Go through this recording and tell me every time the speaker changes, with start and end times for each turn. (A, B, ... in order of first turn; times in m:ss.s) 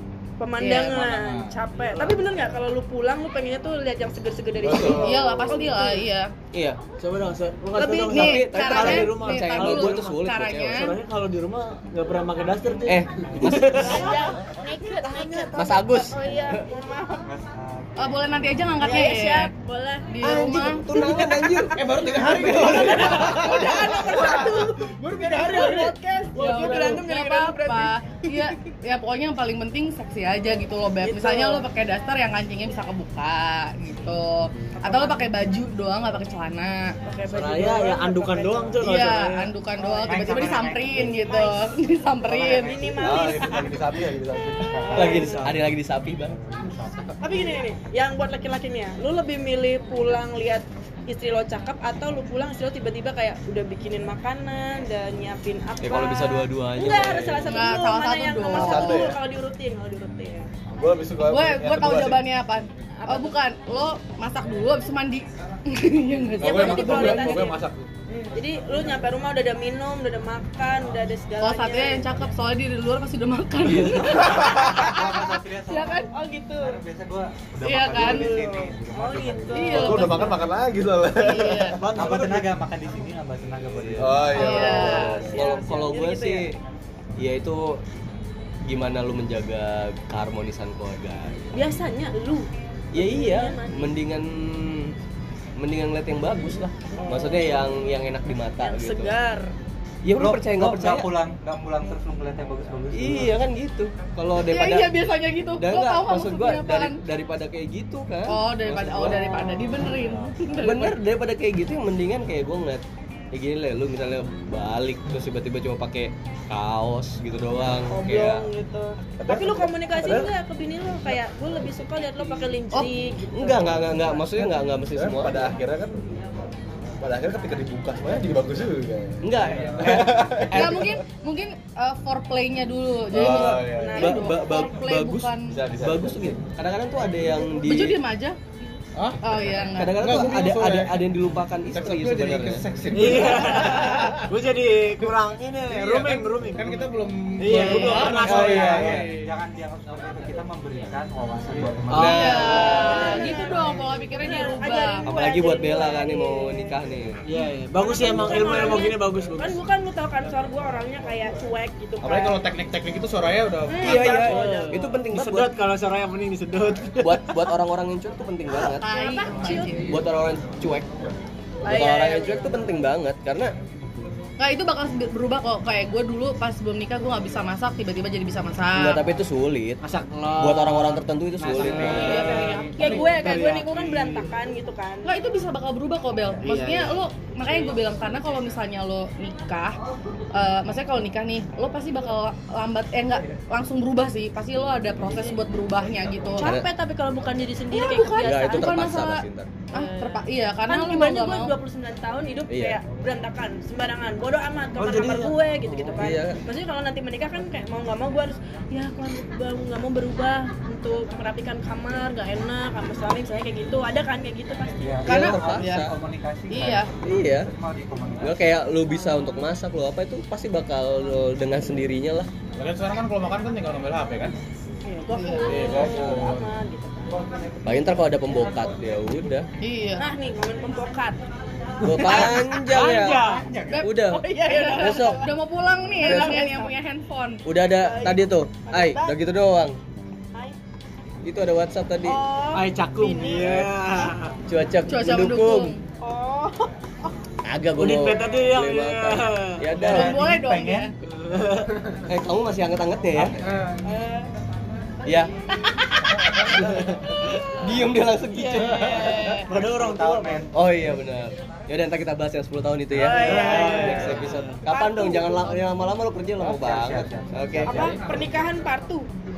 0:00.4-0:06.1 A
0:00.6-0:01.0 B
0:00.9-0:01.5 C
0:04.6-0:04.9 C
0:04.6-0:05.1 D
0:04.8-0:06.3 B
0:06.5-0:06.8 E
0:07.0-0:16.5 F
0:07.8-0:11.0 B
0:08.0-0:10.9 E
0:12.9-0:14.2 E
0:13.4-0:17.3 A
0:15.6-0:16.6 E
0:17.2-0:18.5 G
0:18.0-0:19.5 B
0:18.8-0:28.5 A
0:20.1-0:20.8 B
0:20.2-0:22.0 E
0:21.7-0:26.0 C
0:22.4-0:24.7 B
0:22.5-0:22.9 D
0:26.4-0:36.9 B
0:31.0-0:31.6 A
0:34.8-0:35.3 A
0:37.0-0:38.8 A
0:37.3-0:39.5 F
0:38.8-0:42.8 B
0:39.8-0:41.6 A
0:39.8-0:41.2 G
0:42.2-0:43.6 G
0:42.5-0:43.9 A
0:43.0-0:45.2 D
0:44.7-0:47.2 G
0:44.9-0:46.4 E
0:44.9-0:45.4 A
0:44.9-0:45.5 F
0:47.2-1:00.5 A
0:55.8-0:57.6 E
0:57.5-0:59.1 B
0:58.5-0:59.2 D
1:00.7-1:02.2 D
1:01.2-1:07.5 B
1:03.0-1:03.4 A
1:06.4-1:12.0 A
1:06.4-1:07.3 D
1:06.4-1:07.9 C
1:11.4-1:14.9 B
1:13.6-1:14.5 E
1:14.7-1:20.2 G
1:15.7-1:16.1 B
1:16.1-1:16.8 A
1:17.6-1:18.3 B
1:17.9-1:20.5 A
1:19.5-1:20.4 B
1:19.7-1:22.2 D
1:21.2-1:21.8 B
1:21.6-1:22.5 F
1:21.9-1:24.3 G
1:23.7-1:26.6 E
1:24.0-1:25.1 D
1:24.3-1:25.2 B
1:24.4-1:26.5 A
1:27.2-1:27.8 E
1:28.7-1:31.6 E
1:31.5-1:33.9 A
1:32.9-1:34.9 E
1:35.6-1:39.2 E
1:37.0-1:37.6 A
1:38.6-1:39.5 A
1:40.0-1:41.2 E
1:40.2-1:43.4 G
1:42.9-1:45.0 E
1:44.5-1:47.0 B
1:45.6-1:49.8 E
1:48.3-1:51.0 B
1:50.5-1:58.5 E
1:57.9-2:04.2 A
1:59.2-2:00.3 D
2:03.4-2:05.5 E
2:04.9-2:06.0 D
2:07.0-2:11.0 D
2:09.2-2:10.8 E
2:10.5-2:15.5 B
2:13.1-2:13.9 D
2:13.2-2:18.0 E
2:13.8-2:14.3 A
2:15.5-2:16.4 D
2:17.6-2:18.4 B
2:19.0-2:19.4 C
2:19.2-2:20.1 B
2:19.8-2:22.7 E
2:20.0-2:21.1 C
2:21.7-2:24.3 C
2:22.9-2:29.0 F
2:25.7-2:29.3 C
2:27.5-2:32.3 G
2:27.6-2:29.1 E
2:31.9-2:33.0 E
2:32.0-2:32.4 D
2:32.0-2:35.0 B
2:32.3-2:36.8 A
2:35.0-2:37.2 E
2:37.2-2:39.6 F
2:37.8-2:42.4 A
2:38.3-2:38.8 D
2:42.0-2:44.0 C
2:43.7-2:45.1 A
2:43.8-2:45.5 E
2:43.8-2:47.5 F
2:47.0-2:48.8 E
2:48.7-2:50.0 B
2:48.9-2:50.0 A
2:49.8-2:50.9 E
2:51.6-2:52.7 A
2:51.6-2:53.5 E
2:54.4-2:59.0 B
2:58.8-2:59.8 E
2:59.8-3:04.3 F
3:00.3-3:02.4 E
3:01.5-3:02.9 G
3:01.7-3:05.2 A
3:03.4-3:03.7 C
3:05.0-3:09.8 B
3:06.4-3:07.8 F
3:10.3-3:16.5 B
3:16.4-3:18.8 A
3:16.4-3:16.7 E
3:17.7-3:21.5 B
3:18.2-3:19.5 E
3:19.7-3:35.1 A
3:22.5-3:22.8 E
3:24.8-3:25.9 F
3:26.0-3:26.4 E
3:34.7-3:38.5 G
3:35.1-3:35.9 E
3:35.1-3:35.9 B
3:36.5-3:36.9 B
3:37.0-3:37.5 E
3:38.2-3:42.3 E
3:42.6-3:44.4 C
3:44.8-3:47.1 A
3:45.1-3:45.7 B
3:45.5-3:46.5 C
3:47.6-3:49.5 E
3:49.6-3:50.0 B
3:50.0-3:51.2 A
3:51.8-3:53.7 F
3:51.8-3:55.2 E
3:52.0-3:52.6 A
3:53.7-3:57.4 B
3:54.0-3:55.3 A
3:56.0-3:56.4 E
3:56.0-3:56.7 A
3:57.4-3:59.8 E
3:57.8-3:59.2 A
4:01.2-4:02.2 E
4:02.0-4:04.1 A
4:02.5-4:04.3 F
4:04.5-4:05.8 E
4:04.9-4:05.8 B
4:06.0-4:06.7 A
4:07.4-4:10.2 E
4:07.8-4:09.7 F
4:09.8-4:10.9 G
4:09.8-4:10.9 B
4:11.0-4:12.0 F
4:12.1-4:13.5 E
4:13.2-4:13.8 C
4:13.8-4:14.3 A
4:15.0-4:15.3 E
4:16.1-4:19.4 E
4:18.3-4:19.5 A
4:19.0-4:19.4 B
4:19.5-4:20.5 F
4:19.5-4:20.5 G
4:20.5-4:28.0 E
4:23.0-4:25.9 A
4:23.1-4:24.6 F
4:23.3-4:24.1 G
4:26.4-4:28.0 G
4:27.7-4:29.1 A